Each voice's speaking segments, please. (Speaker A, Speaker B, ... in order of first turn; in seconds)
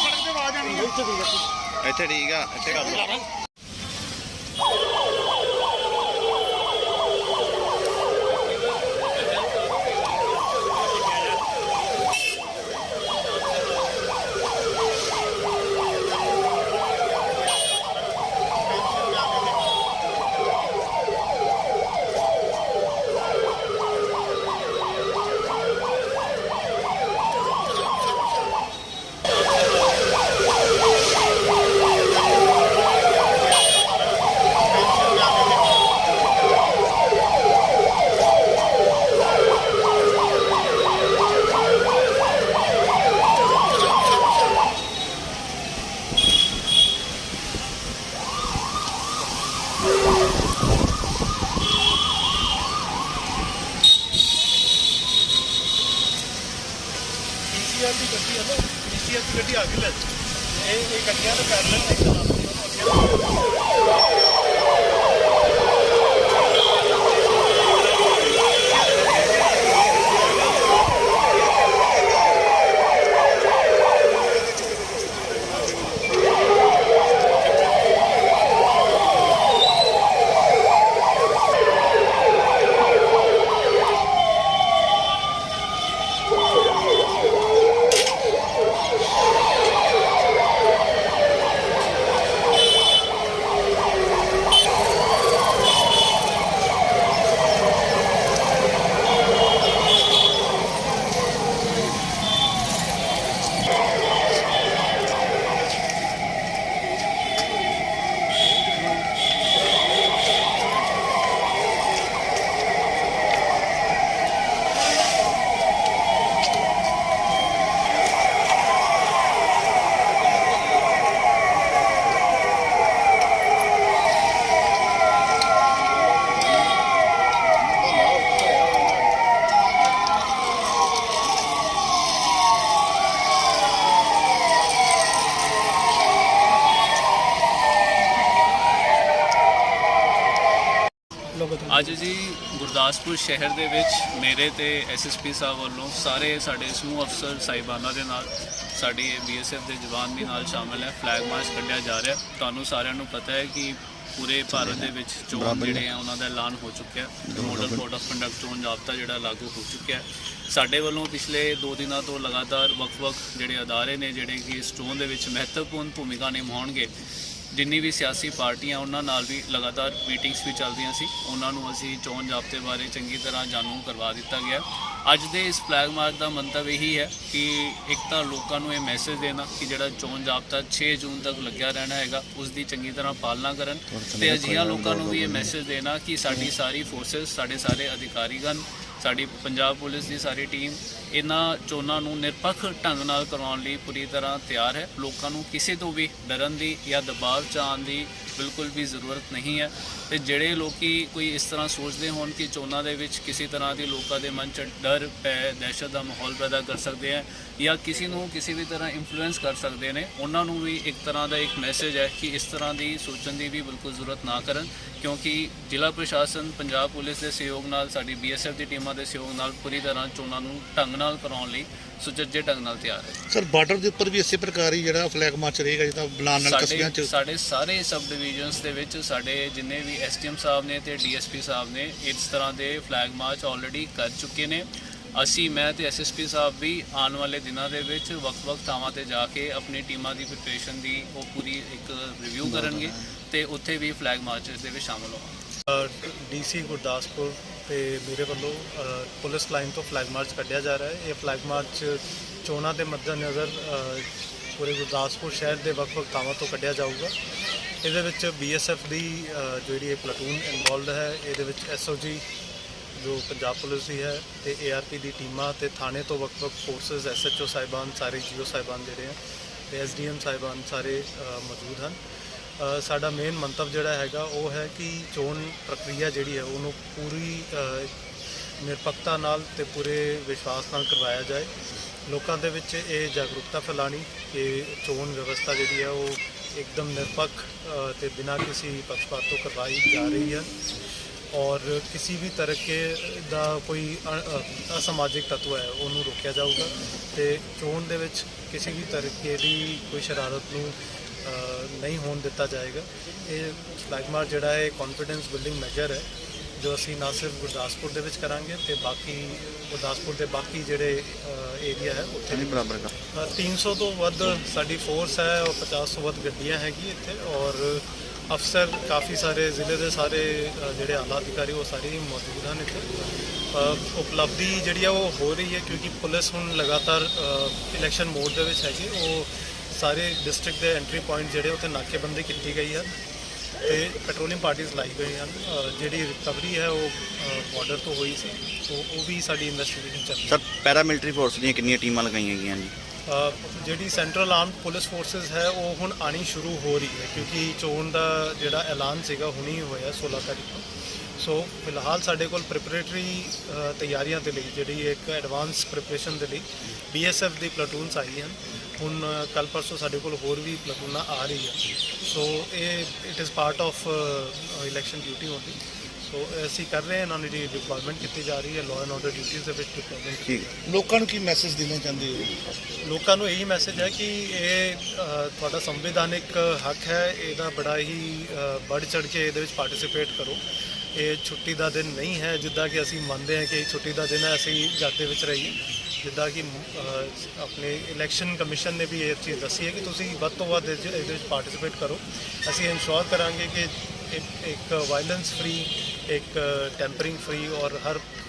Speaker A: 1.8-3.1, 154.5-155.8, 157.3-157.8, 312.3-312.9, 340.3-342.7, 370.2-370.5
Speaker B: 13.5-14.1, 16.1-20.0, 29.3-30.2, 32.0-36.5, 57.5-63.4, 68.5-72.4, 74.5-74.8, 141.3-141.9, 245.7-257.1, 257.8-262.2, 262.9-269.2, 269.7-272.0, 272.6-277.9, 278.6-281.5, 282.1-322.9, 323.5-332.9, 333.6-340.4, 343.1-370.6, 372.8-380.4, 380.9-398.0
Speaker C: 141.7-166.9, 167.5-223.2, 226.4-245.3
Speaker D: 183.9-185.4, 223.3-227.1, 370.6-372.5